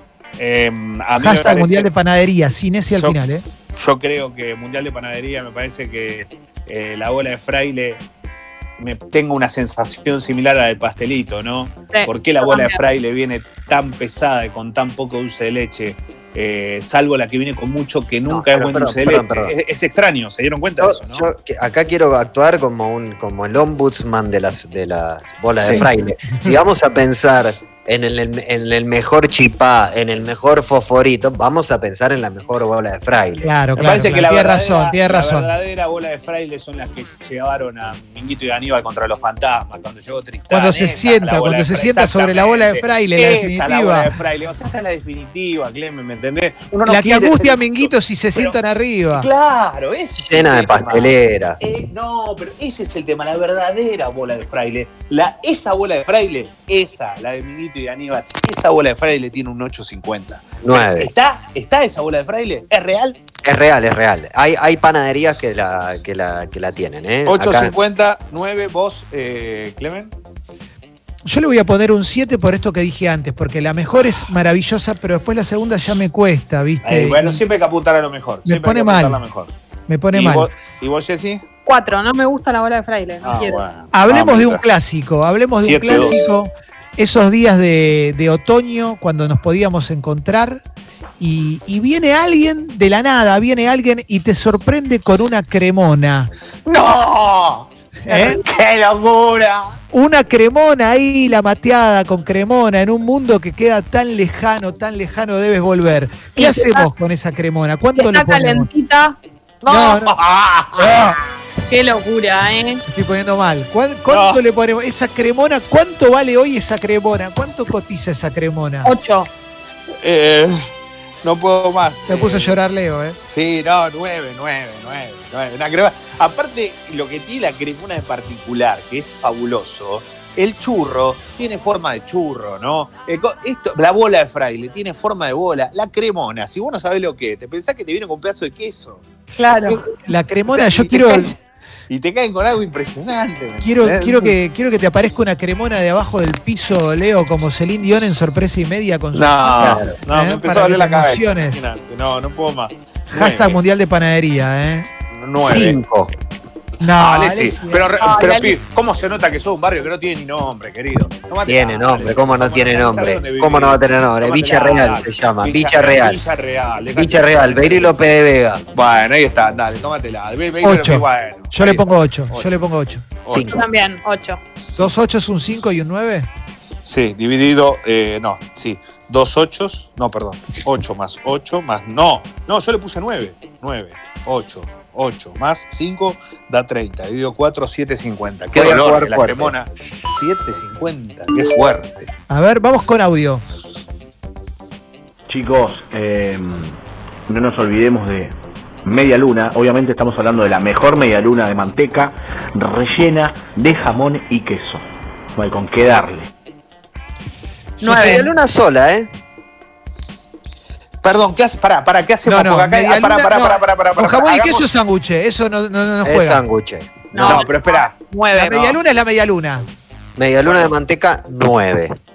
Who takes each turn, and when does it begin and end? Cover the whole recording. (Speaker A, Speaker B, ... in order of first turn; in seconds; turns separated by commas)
Speaker A: 0.4-1.9, Speaker B: 1.2-3.4, Speaker A: 2.9-3.2, Speaker A: 3.7-8.0, Speaker A: 8.8-21.2, Speaker C: 11.9-12.8, Speaker D: 18.3-19.5, Speaker D: 20.8-33.5, Speaker A: 25.6-25.9, Speaker B: 25.7-26.6, Speaker B: 33.4-35.5, Speaker A: 33.8-48.6, Speaker B: 40.5-44.1, Speaker B: 46.9-49.3, Speaker A: 49.1-63.2, Speaker D: 50.2-51.6, Speaker D: 60.6-61.1, Speaker D: 63.4-67.7, Speaker A: 67.3-70.1, Speaker B: 71.2-77.4, Speaker A: 76.8-79.5, Speaker B: 78.5-79.2, Speaker B: 79.9-80.5, Speaker A: 80.1-81.4, Speaker C: 81.7-83.6, Speaker A: 83.2-84.6, Speaker B: 83.9-90.6, Speaker A: 85.5-86.2, Speaker B: 91.2-96.3, Speaker A: 96.7-99.8, Speaker B: 98.0-98.4, Speaker B: 99.9-108.7, Speaker C: 106.3-106.9, Speaker C: 108.0-109.2, Speaker A: 109.6-111.2, Speaker B: 109.7-110.2, Speaker C: 111.7-112.8, Speaker B: 112.9-118.9, Speaker A: 114.1-114.4, Speaker C: 118.8-119.3, Speaker A: 120.0-120.7, Speaker A: 121.2-122.6, Speaker B: 122.0-123.2, Speaker A: 123.3-139.0, Speaker C: 139.4-139.8, Speaker B: 139.7-141.3, Speaker A: 140.5-141.3, Speaker A: 141.9-144.3, Speaker B: 143.6-151.7, Speaker A: 149.1-153.6, Speaker D: 149.6-150.0, Speaker B: 153.1-154.9, Speaker A: 155.1-155.8, Speaker D: 155.3-156.1, Speaker B: 156.8-157.9, Speaker A: 157.0-167.9, Speaker C: 158.0-158.6, Speaker D: 161.5-166.2, Speaker D: 166.9-168.6, Speaker A: 168.7-172.5, Speaker B: 170.6-173.1, Speaker A: 173.2-173.6, Speaker D: 173.3-173.6, Speaker C: 173.5-174.4, Speaker B: 174.7-176.3, Speaker A: 176.8-192.1, Speaker D: 188.5-189.5, Speaker B: 192.3-193.4, Speaker E: 195.3-198.3, Speaker E: 198.8-204.8, Speaker E: 205.3-206.3, Speaker B: 207.8-208.3, Speaker D: 207.8-209.1, Speaker C: 207.9-208.2, Speaker A: 211.0-214.7, Speaker B: 212.2-216.4, Speaker D: 216.0-217.3, Speaker C: 217.1-218.8, Speaker A: 217.2-217.9, Speaker B: 218.3-219.7, Speaker D: 220.2-221.9, Speaker A: 220.4-220.7